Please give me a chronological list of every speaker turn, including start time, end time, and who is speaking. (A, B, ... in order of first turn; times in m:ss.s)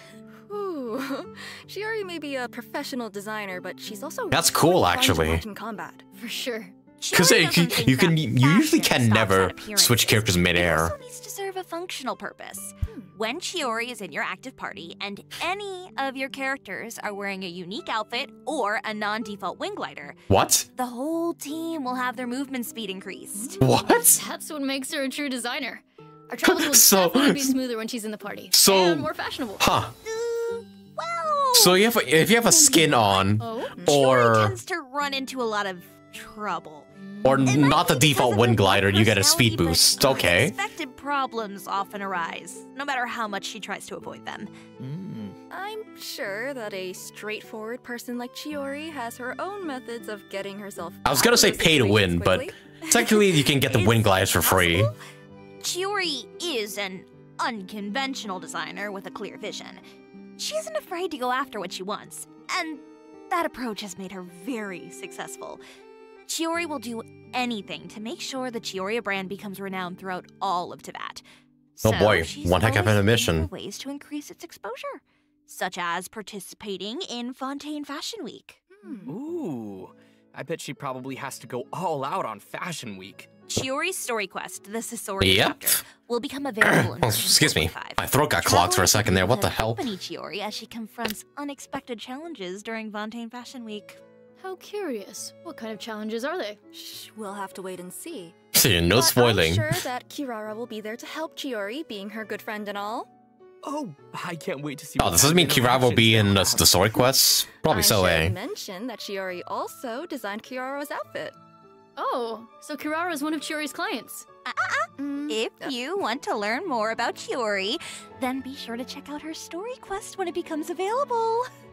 0:00.5-0:06.0 A
0:04.3-0:05.4 B
0:06.2-0:06.8 C
0:07.0-0:20.2 D
0:07.1-0:10.9 B
0:12.9-0:13.1 A
0:20.3-0:20.7 B
0:20.7-0:23.6 D
0:23.5-0:29.7 C
0:23.6-0:24.2 B
0:26.4-0:27.6 B
0:28.5-0:29.9 B
0:30.0-0:36.9 D
0:31.5-0:34.6 B
0:33.4-0:33.8 C
0:37.0-0:37.5 C
0:37.2-0:40.6 B
0:37.4-0:44.5 D
0:44.8-0:45.4 E
0:45.5-0:53.1 A
0:51.0-0:54.9 B
0:53.7-0:55.0 D
0:55.6-0:59.8 D
1:00.4-1:05.6 D
1:06.3-1:11.2 D
1:11.8-1:18.6 D
1:11.8-1:13.5 B
1:18.7-1:19.2 A
1:19.1-1:23.3 E
1:23.5-1:34.0 D
1:25.2-1:25.8 B
1:26.6-1:29.8 B
1:34.4-1:36.6 C
1:36.7-1:38.4 A
1:38.5-1:39.8 B
1:38.9-1:43.1 A
1:43.6-1:46.7 E
1:45.0-1:48.3 B
1:47.6-1:51.4 A
1:52.0-1:54.3 C
1:54.5-2:01.5 D
1:55.0-1:55.7 A